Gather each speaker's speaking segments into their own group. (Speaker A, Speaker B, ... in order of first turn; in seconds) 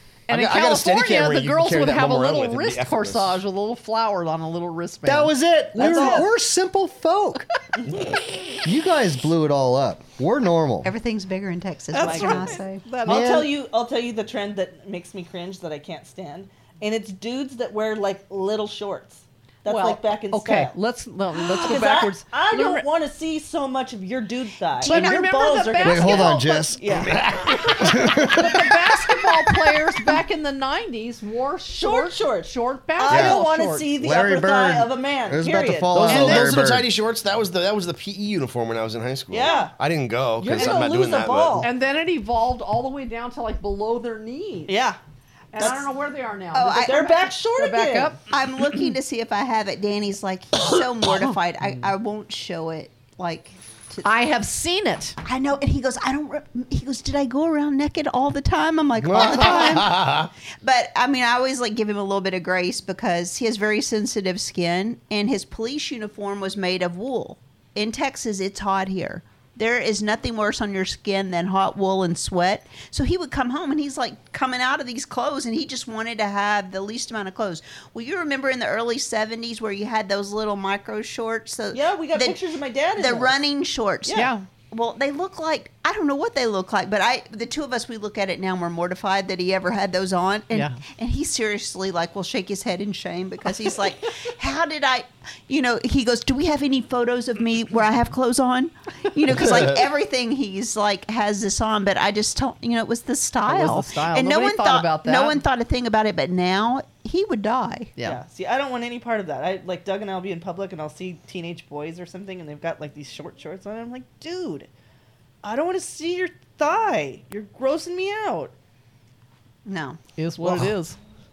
Speaker A: 0.3-6.2, 11.9-13.4, 19.6-22.8, 24.8-26.8, 27.6-33.9, 41.6-44.7, 45.5-48.2, 54.0-55.2, 84.1-84.5, 90.5-90.8, 103.4-105.4, 120.2-121.0
Speaker B: 0.3-3.4, 27.0-28.2, 35.9-41.7, 59.0-60.3
Speaker C: 5.0-7.5, 8.6-10.9, 13.0-13.5, 25.8-26.8, 27.8-28.6, 33.1-33.4, 34.0-36.9
Speaker D: 5.8-6.2, 11.9-20.7, 21.4-27.2, 31.8-36.5, 39.3-39.7, 40.4-41.7, 44.7-45.0, 46.8-48.1, 81.7-83.4, 84.0-84.3, 108.0-114.7, 115.4-118.5
Speaker E: 10.8-12.8, 24.8-25.3, 46.5-47.3, 48.3-54.0, 55.2-82.4, 83.0-107.9, 119.6-120.0